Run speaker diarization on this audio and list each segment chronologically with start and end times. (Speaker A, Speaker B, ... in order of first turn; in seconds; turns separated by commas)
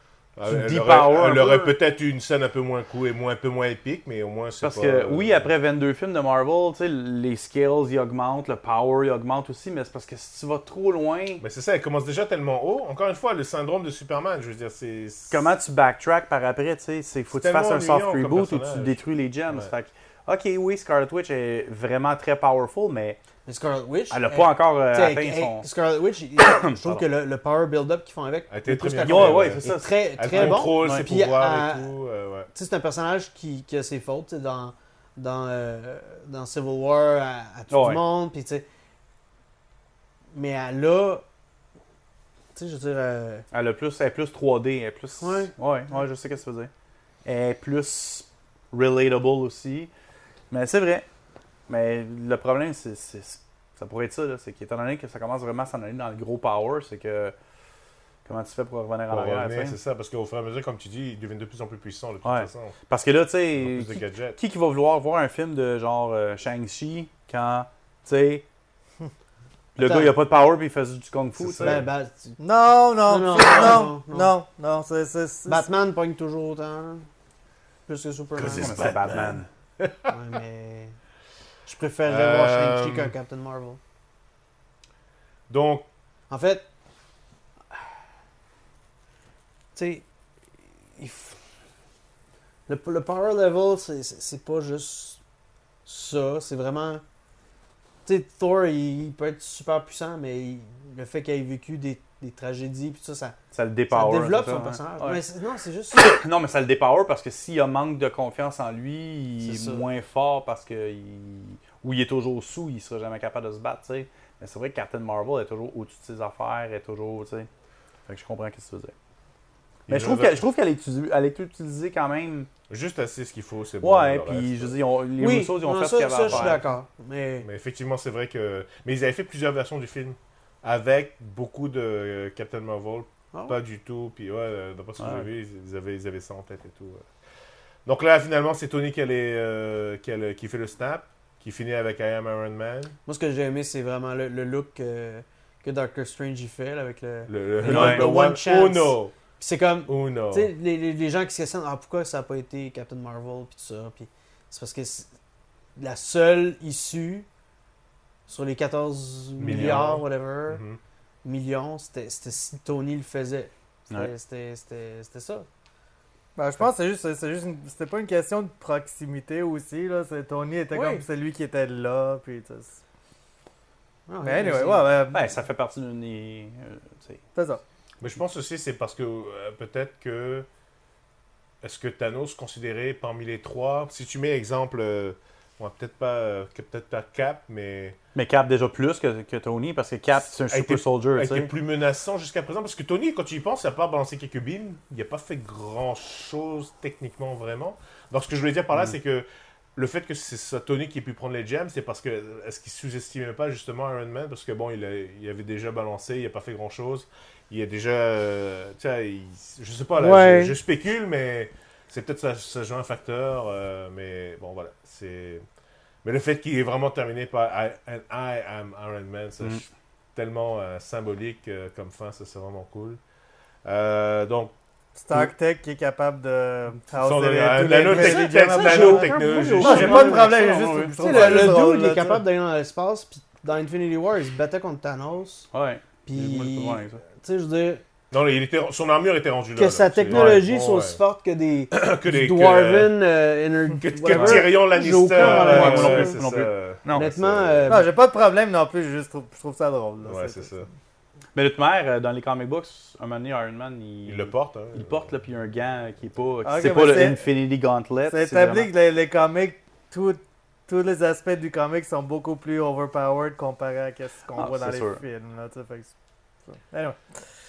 Speaker A: 0.3-5.5, Speaker B: 0.4-1.7, Speaker B: 4.6-11.4, Speaker A: 11.4-15.5, Speaker B: 15.3-23.2, Speaker A: 17.3-19.7, Speaker C: 23.4-31.9, Speaker B: 24.1-25.7, Speaker B: 26.4-27.0, Speaker A: 28.5-32.5, Speaker B: 29.0-31.1, Speaker C: 32.5-38.6, Speaker B: 37.7-38.0, Speaker C: 40.3-41.2, Speaker C: 42.5-43.5, Speaker B: 43.5-46.7, Speaker C: 45.2-45.5, Speaker B: 47.2-49.9, Speaker B: 50.5-51.1, Speaker B: 51.7-57.3, Speaker B: 58.2-59.8, Speaker A: 59.1-62.8, Speaker B: 62.2-68.4, Speaker A: 63.6-64.4, Speaker B: 69.8-71.8, Speaker C: 69.8-70.1, Speaker A: 71.4-71.9, Speaker C: 71.6-72.4, Speaker D: 72.4-75.7, Speaker C: 73.0-74.3, Speaker C: 75.5-77.1, Speaker C: 77.9-79.0, Speaker A: 78.3-80.1, Speaker B: 78.5-79.5, Speaker C: 80.1-81.0, Speaker C: 81.7-83.8, Speaker A: 82.0-83.1, Speaker A: 85.5-85.9, Speaker C: 86.3-86.7, Speaker C: 89.7-90.0, Speaker C: 91.0-91.4, Speaker C: 92.7-95.2, Speaker C: 95.8-97.0, Speaker C: 98.0-103.4, Speaker B: 103.5-105.2, Speaker C: 103.9-106.1, Speaker B: 105.9-117.5, Speaker C: 109.4-109.8, Speaker B: 118.1-118.9, Speaker A: 119.9-120.4, Speaker B: 119.9-122.5, Speaker A: 122.7-124.8, Speaker B: 123.8-126.6, Speaker C: 125.2-127.5, Speaker A: 126.3-126.7, Speaker A: 127.4-137.0, Speaker B: 135.0-135.3, Speaker A: 137.8-142.9, Speaker C: 143.1-155.1, Speaker A: 147.3-149.1, Speaker B: 147.6-148.1, Speaker A: 149.9-150.5, Speaker C: 155.8-157.3, Speaker C: 158.3-160.6, Speaker A: 159.4-160.8, Speaker B: 159.5-159.8, Speaker C: 161.2-165.4, Speaker D: 166.3-172.8, Speaker C: 170.7-171.0, Speaker C: 174.1-174.9, Speaker D: 174.2-175.3, Speaker B: 175.1-177.2, Speaker D: 177.3-177.6, Speaker A: 178.0-180.5, Speaker A: 181.6-188.0, Speaker B: 188.1-191.5, Speaker A: 190.2-215.4, Speaker C: 209.9-210.6, Speaker A: 216.0-223.0, Speaker A: 223.6-224.5, Speaker D: 224.9-232.2, Speaker A: 227.0-230.5, Speaker C: 227.9-230.3, Speaker B: 229.9-230.9, Speaker C: 231.0-235.5, Speaker A: 231.0-231.5, Speaker B: 235.5-237.0, Speaker C: 236.1-237.8, Speaker A: 238.1-241.0, Speaker C: 239.6-246.2, Speaker B: 240.1-240.4, Speaker A: 241.7-242.9, Speaker A: 243.9-247.8, Speaker B: 244.1-244.5, Speaker B: 245.2-247.1, Speaker C: 246.9-247.9, Speaker D: 247.7-250.5, Speaker A: 250.1-250.7, Speaker B: 251.3-258.7, Speaker A: 254.1-255.1, Speaker D: 256.4-257.2, Speaker D: 258.1-265.9, Speaker B: 264.3-265.0, Speaker D: 266.5-267.0